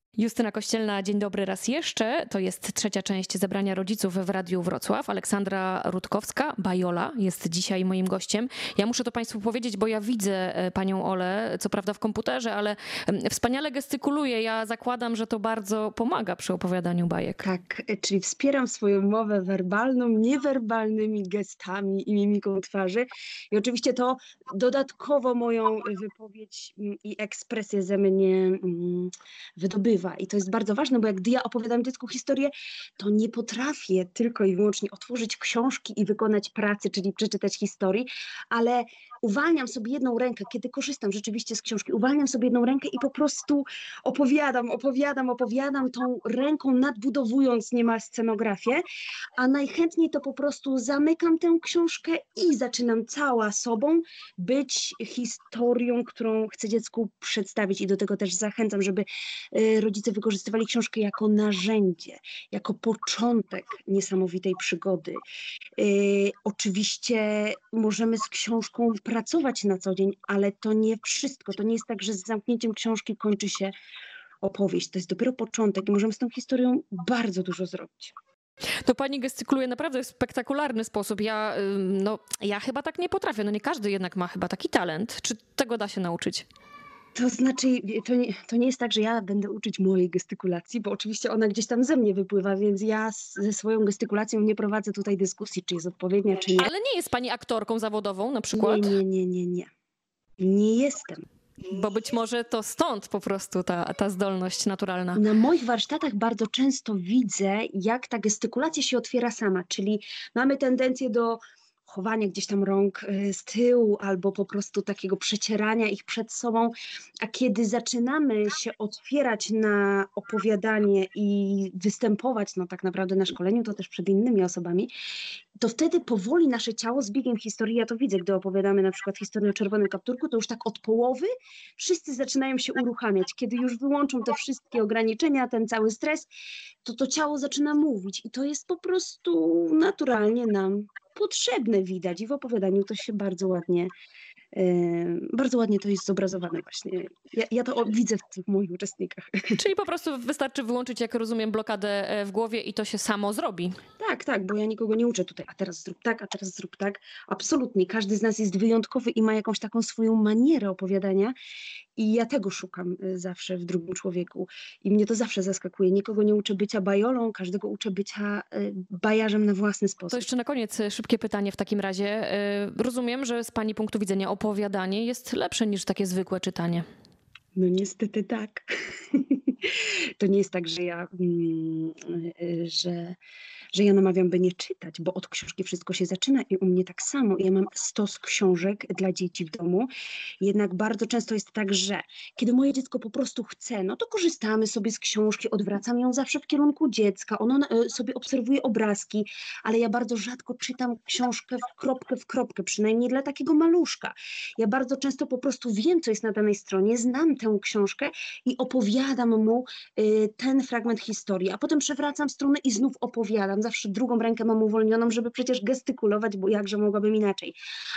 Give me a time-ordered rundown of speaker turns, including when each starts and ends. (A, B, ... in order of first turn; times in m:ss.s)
0:00.2-0:17.5 A
0:17.4-0:48.8 B
0:49.4-1:05.2 B
1:05.8-1:13.7 B
1:14.4-1:18.1 B
1:18.8-1:26.4 A
1:27.1-1:36.7 B
1:36.6-1:38.9 A
1:38.5-1:39.7 B
1:40.4-1:41.2 B
1:41.6-1:45.2 A
1:45.1-2:04.9 B
2:05.6-2:16.3 B
2:16.8-2:23.9 B
2:24.5-2:29.5 B
2:29.6-2:33.7 A
2:34.0-2:41.3 B
2:42.0-2:50.3 B
2:50.1-2:56.8 A
2:57.6-3:03.2 B
3:03.7-3:09.9 B
3:10.4-3:37.6 B